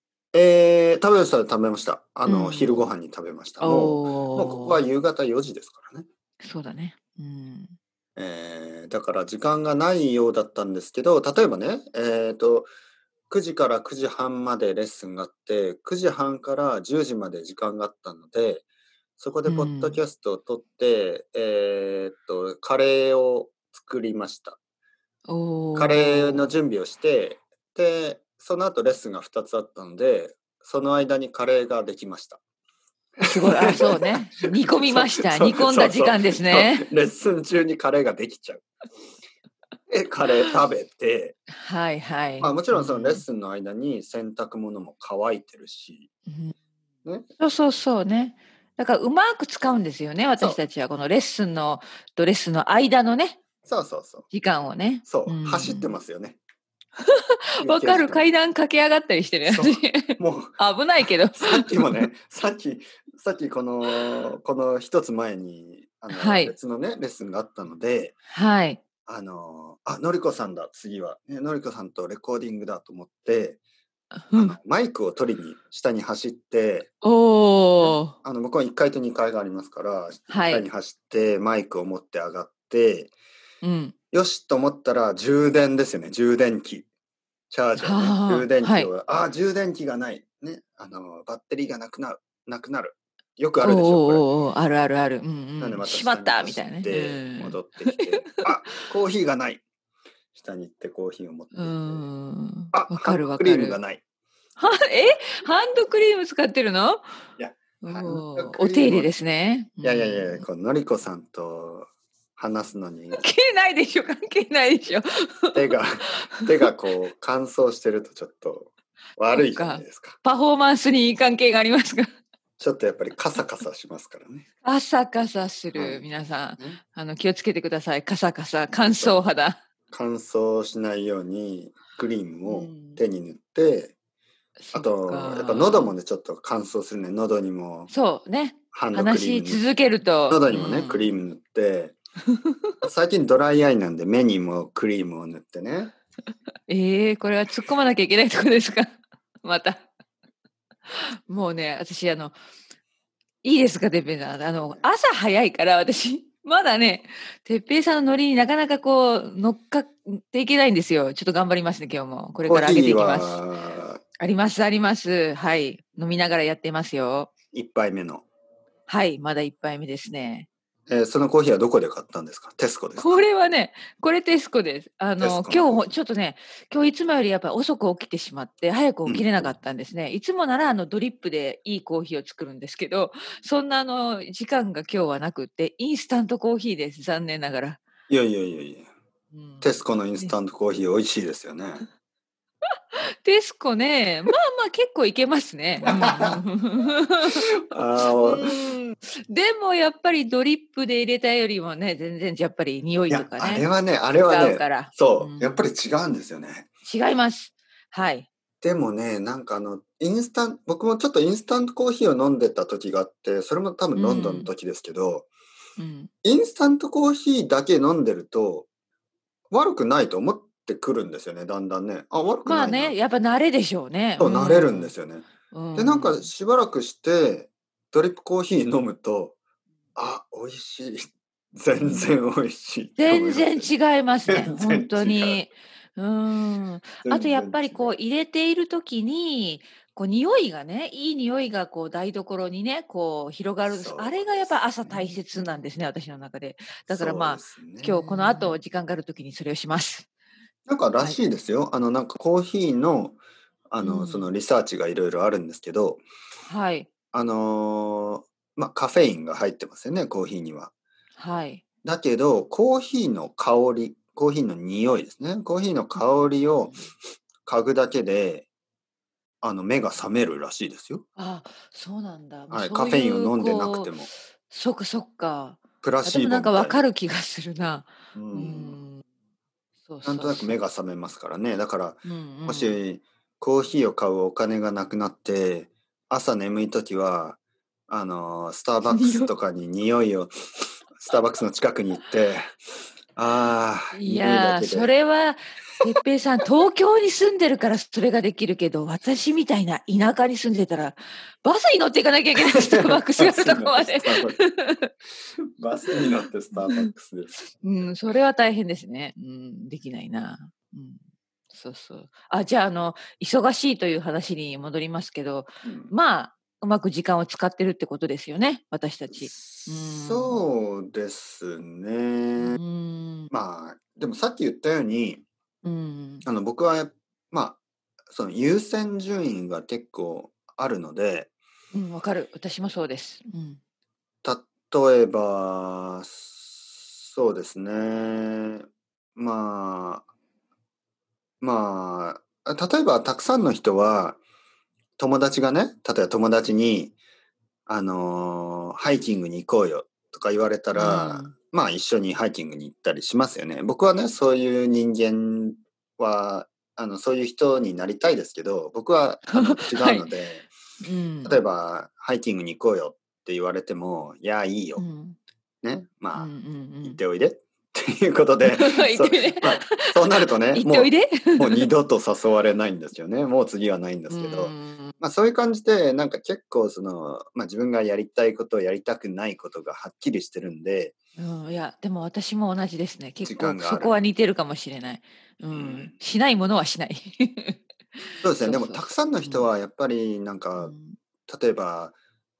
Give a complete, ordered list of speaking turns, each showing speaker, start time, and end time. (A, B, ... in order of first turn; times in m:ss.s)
0:00.3-0:06.0 A
0:02.2-0:02.8 B
0:03.6-0:04.8 B
0:06.4-0:07.7 B
0:08.2-0:12.7 A
0:13.3-0:18.6 A
0:19.2-0:24.6 A
0:19.5-0:20.0 B
0:25.3-0:26.5 B
0:25.7-0:32.4 A
0:33.2-0:38.6 A
0:33.2-0:36.9 B
0:39.9-0:41.4 A
0:41.6-0:43.2 B
0:42.4-0:46.1 A
0:46.3-0:46.5 B
0:47.4-0:53.4 B
0:53.6-0:54.2 A
0:54.3-0:55.9 B
0:55.0-0:56.4 A
0:57.1-1:02.0 B
0:57.6-0:58.3 A
0:59.4-1:00.6 A
1:01.4-1:08.2 A
1:06.1-1:06.5 B
1:08.3-1:08.8 B
1:09.0-1:13.6 A
1:14.3-1:14.6 B
1:14.3-1:16.9 A
1:17.0-1:18.1 B
1:17.8-1:23.1 A
1:20.3-1:20.6 B
1:23.6-1:23.9 B
1:24.1-1:26.9 A
1:27.5-1:34.2 A
1:27.8-1:28.9 B
1:33.6-1:38.4 B
1:35.6-1:39.6 A
1:40.3-1:42.0 A
1:41.5-1:43.8 B
1:42.7-1:44.0 A
1:44.6-1:47.0 B
1:47.4-1:49.1 A
1:47.8-1:50.4 B
1:49.8-1:53.2 A
1:53.1-1:55.7 B
1:55.5-2:00.2 A
1:59.3-2:02.1 B
2:02.6-2:04.4 A
2:04.6-2:09.6 B
2:05.7-2:06.0 A
2:08.7-2:09.2 A
2:09.9-2:13.9 A
2:12.4-2:13.0 B
2:14.6-2:15.9 B
2:14.7-2:17.9 A
2:17.9-2:21.1 B
2:18.7-2:19.6 A
2:20.3-2:22.0 A
2:22.8-2:25.9 A
2:26.7-2:29.9 B
2:30.9-2:32.3 B
2:33.4-2:43.4 B
2:42.4-2:44.0 A
2:44.2-2:47.3 B
2:47.5-2:48.2 A
2:48.9-2:50.5 B
2:50.9-2:53.2 A
2:53.0-3:07.8 B
2:55.2-2:55.9 A
2:59.0-2:59.5 A
3:08.1-3:08.9 A
3:09.3-3:10.3 B
3:09.6-3:11.8 A
3:13.2-3:17.4 B
3:15.8-3:16.4 A
3:17.4-3:18.6 A
3:18.0-3:23.7 B
3:23.1-3:26.7 A
3:24.3-3:25.6 B
3:26.8-3:28.3 B
3:28.6-3:35.3 A
3:33.9-3:34.5 B
3:35.8-3:36.1 B
3:36.2-3:38.7 A
3:39.5-3:43.0 A
3:42.4-3:44.9 B
3:44.2-3:49.4 A
3:45.5-3:46.3 B
3:50.0-3:53.7 A
3:51.8-3:52.1 B
3:53.0-4:10.1 B
3:54.3-3:55.4 A
3:57.0-3:57.9 A
4:03.6-4:05.2 A
4:06.9-4:08.5 A
4:10.7-4:13.2 A
4:13.7-4:16.0 A
4:13.8-4:14.3 B
4:16.4-4:16.9 B
4:17.1-4:20.7 A
4:21.2-4:21.6 B
4:21.8-4:26.8 A
4:26.0-4:26.9 B
4:27.4-4:28.5 A
4:29.4-4:31.0 A
4:31.2-4:33.9 B
4:32.5-4:34.1 A
4:34.5-4:39.0 B
4:35.8-4:36.8 A
4:38.1-4:38.8 A
4:39.8-4:40.6 B
4:40.0-4:50.3 A
4:42.0-4:42.8 B
4:48.8-4:49.3 B
4:50.9-4:52.5 A
4:53.1-4:54.9 A
4:53.9-5:04.9 B
5:02.5-5:04.4 A
5:05.4-5:08.1 A
5:06.5-5:06.9 B
5:07.6-5:20.4 B
5:15.6-5:15.9 A
5:19.1-5:22.6 A
5:22.4-5:23.3 B
5:23.3-5:25.2 A
5:25.6-5:26.3 B
5:26.2-5:31.3 A
5:31.7-5:33.6 B
5:34.2-5:40.1 A
5:41.4-5:44.2 A
5:45.0-5:47.0 A
5:47.7-6:00.5 A
5:50.7-5:51.3 B
5:59.3-6:00.0 B
6:00.8-6:01.4 B
6:01.2-6:04.8 A
6:04.8-6:05.2 B
6:05.6-6:06.3 A
6:06.2-6:07.0 B
6:06.8-6:20.9 A
6:08.4-6:11.7 B
6:14.1-6:14.9 B
6:21.2-6:27.6 B
6:23.2-6:24.0 A
6:25.5-6:25.9 A
6:28.2-6:30.7 A
6:28.4-6:29.5 B
6:30.6-6:31.0 B
6:31.3-6:32.0 A